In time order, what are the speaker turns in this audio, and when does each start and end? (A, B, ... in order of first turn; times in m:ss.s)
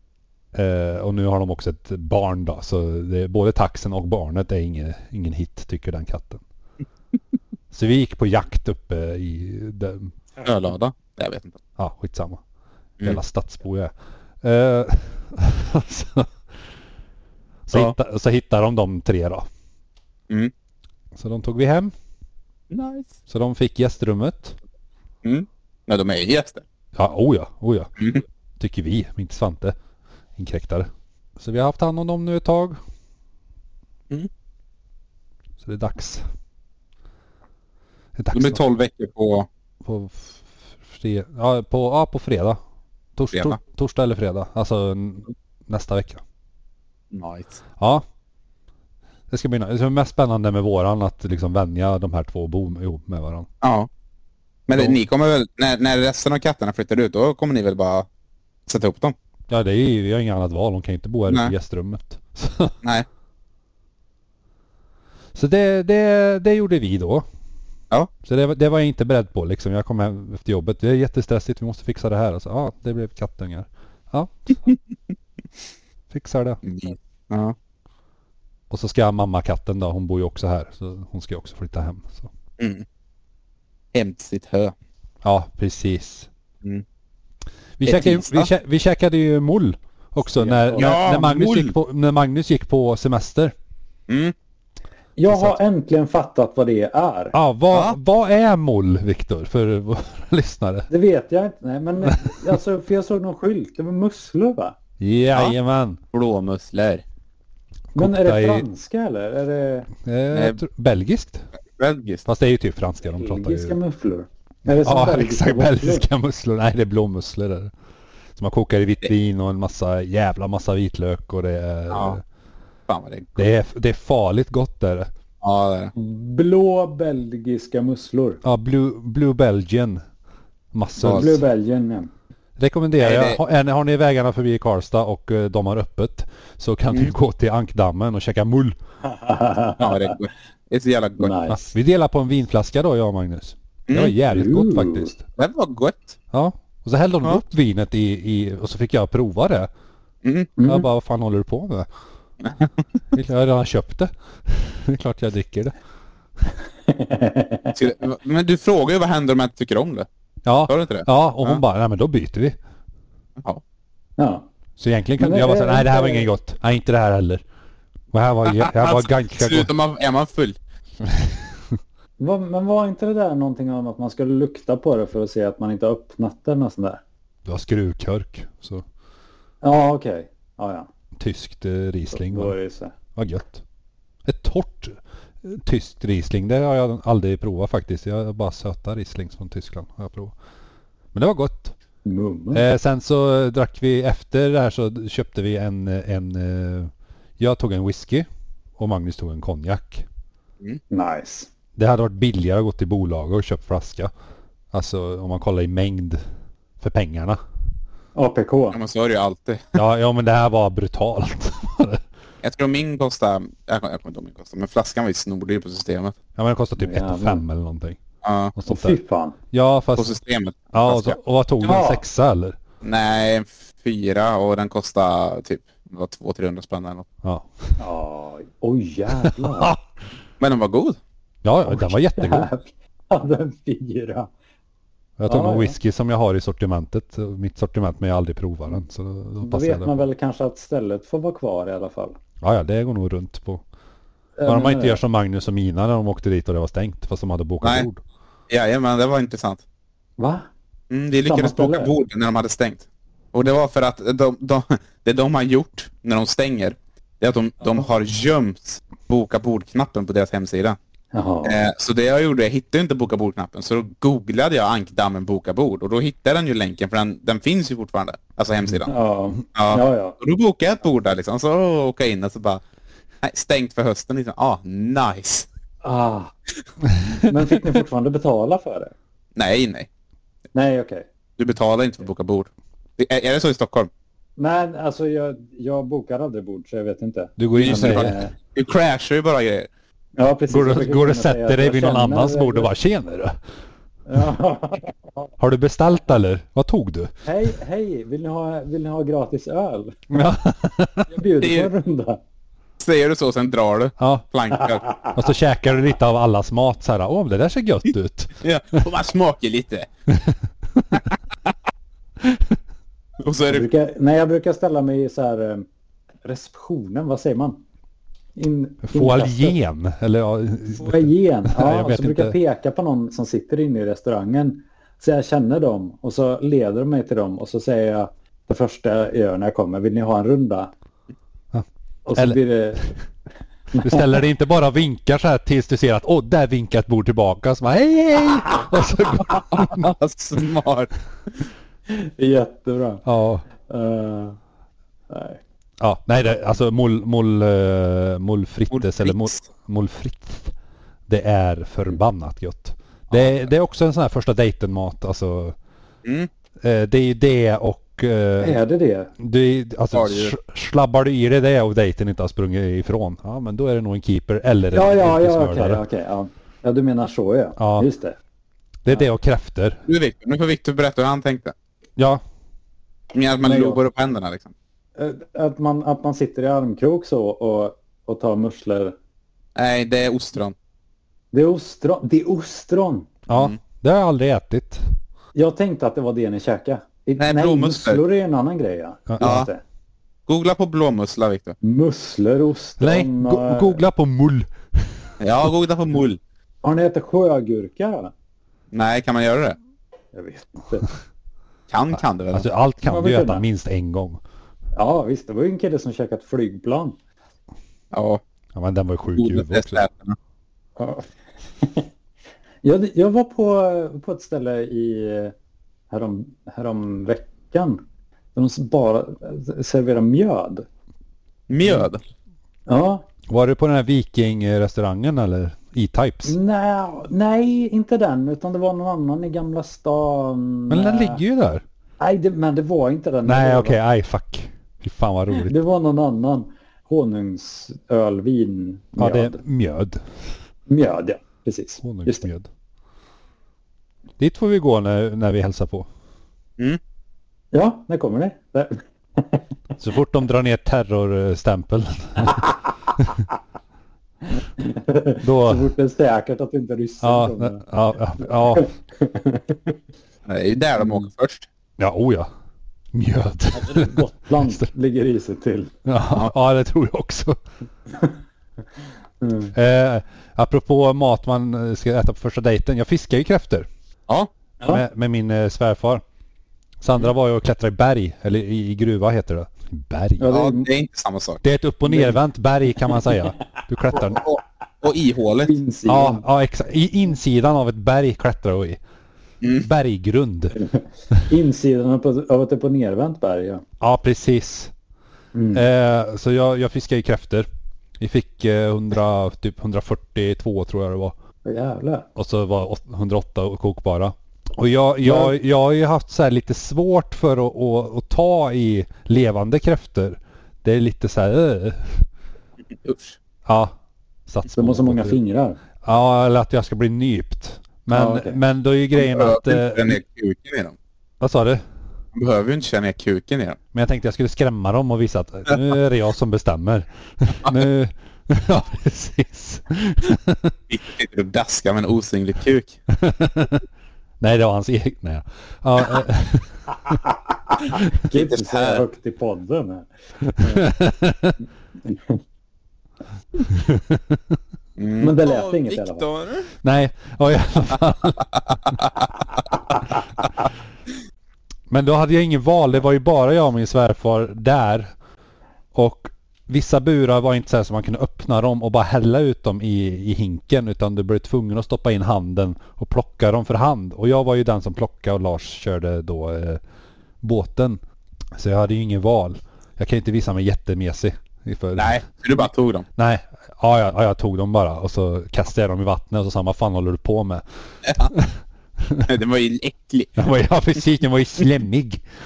0:00.5-0:06.4 A
0:07.7-0:10.1 A
0:10.4-0:11.6 B
0:11.8-0:12.4 A
0:13.0-0:16.4 A
0:17.7-0:19.5 A
0:21.1-0:21.9 A
0:22.7-0:23.2 B
0:23.3-0:24.6 A
0:25.2-0:26.6 B
0:26.9-0:27.9 A
0:28.6-0:29.7 A
0:30.4-0:32.8 A
0:35.6-0:36.2 A
0:38.2-0:38.6 A
0:38.3-0:39.5 B
0:39.8-0:42.6 A
0:43.2-0:46.2 A
0:43.3-0:43.6 B
0:47.1-0:47.6 B
0:47.8-0:48.0 A
0:49.3-0:53.5 A
0:53.6-0:53.9 B
0:54.7-0:58.1 B
0:58.7-0:59.1 B
0:59.5-1:02.7 A
1:01.3-1:01.5 B
1:05.3-1:07.2 A
1:08.2-1:14.3 A
1:16.1-1:16.6 A
1:16.6-1:17.5 B
1:18.7-1:22.3 A
1:22.6-1:22.8 B
1:23.9-1:24.7 B
1:25.2-1:26.3 A
1:27.8-1:33.5 A
1:27.8-1:28.5 B
1:30.4-1:31.0 C
1:30.7-1:31.7 B
1:34.1-1:34.3 B
1:35.2-1:37.4 C
1:35.3-1:35.6 A
1:37.3-1:40.9 A
1:37.7-1:38.0 B
1:40.9-1:44.7 C
1:45.0-1:46.0 A
1:46.1-1:47.0 B
1:47.9-1:49.9 C
1:48.0-1:48.6 A
1:49.9-1:51.4 A
1:50.3-1:50.6 B
1:51.8-1:52.2 B
1:52.2-1:53.8 A
1:53.0-1:56.0 C
1:54.8-1:57.7 A
1:58.4-2:02.2 A
2:01.9-2:02.2 B
2:02.9-2:03.5 B
2:03.4-2:05.1 A
2:05.4-2:05.9 B
2:05.9-2:08.4 C
2:08.4-2:10.0 A
2:10.7-2:11.4 A
2:11.0-2:12.1 C
2:11.0-2:11.4 B
2:12.6-2:18.8 A
2:13.0-2:13.4 B
2:19.0-2:20.1 C
2:19.8-2:21.3 B
2:21.2-2:21.7 C
2:21.5-2:25.2 A
2:23.9-2:24.2 B
2:24.3-2:25.1 C
2:25.4-2:26.2 B
2:26.3-2:29.7 A
2:30.2-2:30.5 B
2:30.6-2:30.9 C
2:30.6-2:31.9 A
2:32.4-2:32.8 B
2:33.1-2:35.8 A
2:36.9-2:37.8 C
2:37.7-2:40.1 B
2:40.4-2:42.6 A
2:40.7-2:41.6 B
2:44.2-2:44.4 C
2:44.8-2:47.4 A
2:45.2-2:46.3 C
2:48.1-2:49.7 A
2:48.4-2:50.6 B
2:51.0-2:51.8 A
2:52.2-2:57.0 C
2:57.4-2:58.8 A
2:59.6-3:00.9 C
3:01.2-3:02.5 A
3:02.1-3:02.9 C
3:03.1-3:03.6 A
3:04.2-3:10.3 A
3:11.1-3:11.7 A
3:12.0-3:12.6 C
3:12.5-3:20.0 A
3:20.9-3:21.5 C
3:21.8-3:24.1 A
3:24.7-3:26.2 A
3:26.8-3:27.4 A
3:28.1-3:28.8 C
3:28.7-3:29.8 B
3:29.7-3:32.0 A
3:32.4-3:36.2 B
3:36.4-3:38.0 A
3:36.8-3:37.4 C
3:38.2-3:38.5 B
3:38.5-3:39.0 A
3:38.7-3:39.4 C
3:39.5-3:40.1 A
3:40.0-3:41.2 B
3:40.7-3:42.6 A
3:41.6-3:42.0 C
3:42.8-3:47.1 B
3:47.2-3:47.7 A
3:47.8-3:49.7 C
3:49.2-3:49.8 A
3:50.4-3:51.0 B
3:51.4-3:52.5 A
3:51.7-3:54.3 C
3:55.2-3:59.9 A
3:55.3-3:55.8 C
3:59.4-4:02.2 C
4:02.4-4:03.6 A
4:04.4-4:05.0 C
4:04.4-4:08.0 A
4:08.5-4:09.6 B
4:10.2-4:10.5 C
4:10.9-4:20.8 B
4:11.2-4:11.9 C
4:21.1-4:21.6 C
4:21.4-4:28.9 B
4:28.9-4:30.2 C
4:29.5-4:32.6 B
4:33.2-4:35.5 B
4:35.8-4:36.3 C
4:37.2-4:38.9 C
4:39.4-4:39.9 B
4:40.5-4:41.0 C
4:41.4-4:43.9 B
4:44.4-4:48.3 C
4:47.4-4:48.2 A
4:47.5-4:49.7 B
4:50.2-4:52.7 C
4:50.5-4:53.4 A
4:54.1-4:55.3 C
4:55.4-4:57.1 A
4:57.2-5:00.0 C
5:00.1-5:01.1 A
5:01.1-5:02.2 C
5:01.4-5:01.7 B
5:02.8-5:04.9 B
5:04.0-5:04.2 A
5:04.8-5:05.1 C
5:05.1-5:08.3 A
5:08.4-5:09.9 B
5:10.1-5:10.8 A
5:12.2-5:12.6 A
5:13.2-5:13.7 B
5:13.5-5:15.6 C
5:16.2-5:17.6 C
5:18.4-5:19.6 C
5:18.8-5:22.4 A
5:20.7-5:30.7 C
5:31.5-5:32.4 A
5:32.0-5:32.9 C
5:33.7-5:34.2 C
5:33.8-5:39.9 A
5:39.3-5:40.9 B
5:41.9-5:43.0 C
5:43.0-5:43.4 A
5:43.6-5:44.4 C
5:45.1-5:45.4 C
5:45.8-5:50.5 A
5:48.7-5:49.4 B
5:51.1-5:55.6 A
5:53.1-5:53.4 B
5:56.6-5:58.6 A
5:58.4-5:59.1 C
5:59.2-6:05.8 A
5:59.9-6:00.3 B
6:04.7-6:08.2 C
6:07.6-6:07.9 A
6:08.8-6:09.8 A
6:09.9-6:11.5 B
6:12.0-6:12.2 A
6:13.1-6:14.5 B
6:13.4-6:13.8 C
6:15.0-6:19.0 C
6:19.6-6:20.5 B
6:21.3-6:23.1 C
6:23.3-6:24.8 A
6:23.3-6:23.6 B
6:25.3-6:29.6 C
6:27.2-6:28.0 B
6:29.2-6:29.5 B
6:30.3-6:31.6 B
6:31.6-6:33.8 C
6:32.8-6:35.1 A
6:35.2-6:36.2 B
6:36.6-6:38.1 C
6:38.7-6:39.6 B
6:40.1-6:40.9 C
6:41.7-6:42.5 B
6:42.3-6:44.2 A
6:42.8-6:43.4 C
6:44.8-6:47.0 C
6:47.9-6:48.2 B
6:48.5-6:49.8 A
6:49.2-6:50.2 B
6:50.8-6:51.1 C
6:51.6-6:51.9 C
6:52.6-6:55.3 C
6:55.9-6:57.8 C
6:58.3-7:00.6 C
7:01.5-7:02.0 B
7:02.7-7:03.0 C
7:03.3-7:06.4 A
7:06.2-7:11.2 C
7:10.7-7:11.6 A
7:12.0-7:13.8 C
7:13.2-7:15.5 A
7:15.4-7:19.4 C
7:19.0-7:20.0 A
7:20.7-7:22.3 C
7:21.8-7:22.5 A
7:24.2-7:25.9 A
7:27.5-7:29.4 C
7:29.8-7:32.4 A
7:34.4-7:37.6 C
7:35.2-7:35.7 A
7:37.0-7:38.7 A
7:38.4-7:39.8 C
7:40.3-7:41.5 B
7:41.8-7:42.3 A
7:42.9-7:44.6 A
7:43.5-7:45.7 C
7:45.8-7:47.4 A
7:49.2-7:49.5 C
7:49.5-7:53.7 A
7:54.7-7:56.0 A
7:56.8-8:00.3 A
8:00.2-8:00.7 C
8:00.3-8:01.4 B
8:01.4-8:04.2 A
8:01.9-8:02.2 C
8:04.1-8:05.6 B
8:05.4-8:06.2 C
8:05.8-8:08.8 A
8:09.4-8:09.7 B
8:09.6-8:10.6 A
8:11.3-8:13.6 C
8:13.8-8:14.7 A
8:15.3-8:15.6 C
8:15.5-8:17.5 A
8:18.0-8:21.1 A
8:21.4-8:22.1 C
8:22.2-8:32.0 A
8:25.0-8:25.3 C
8:32.8-8:33.2 B
8:33.4-8:33.7 A
8:34.3-8:35.2 A
8:34.5-8:35.6 C
8:35.8-8:40.0 A
8:37.9-8:38.4 C
8:39.0-8:40.8 B
8:41.2-8:41.6 A
8:42.1-8:43.6 B
8:43.7-8:50.5 A
8:50.7-8:52.8 B
8:52.9-8:53.6 A
8:54.2-8:57.0 A
8:56.9-9:00.7 C
8:58.1-8:58.8 B
9:00.4-9:01.3 A
9:01.8-9:02.2 C
9:03.5-9:04.4 A
9:04.8-9:06.5 B
9:05.0-9:06.0 C
9:06.6-9:08.3 A
9:11.7-9:14.9 A
9:15.7-9:26.6 A
9:27.2-9:27.8 A
9:28.3-9:32.0 A
9:31.8-9:32.8 B
9:33.0-9:37.4 A
9:37.8-9:38.1 B
9:38.0-9:39.1 A
9:39.0-9:40.2 B
9:40.2-9:42.0 A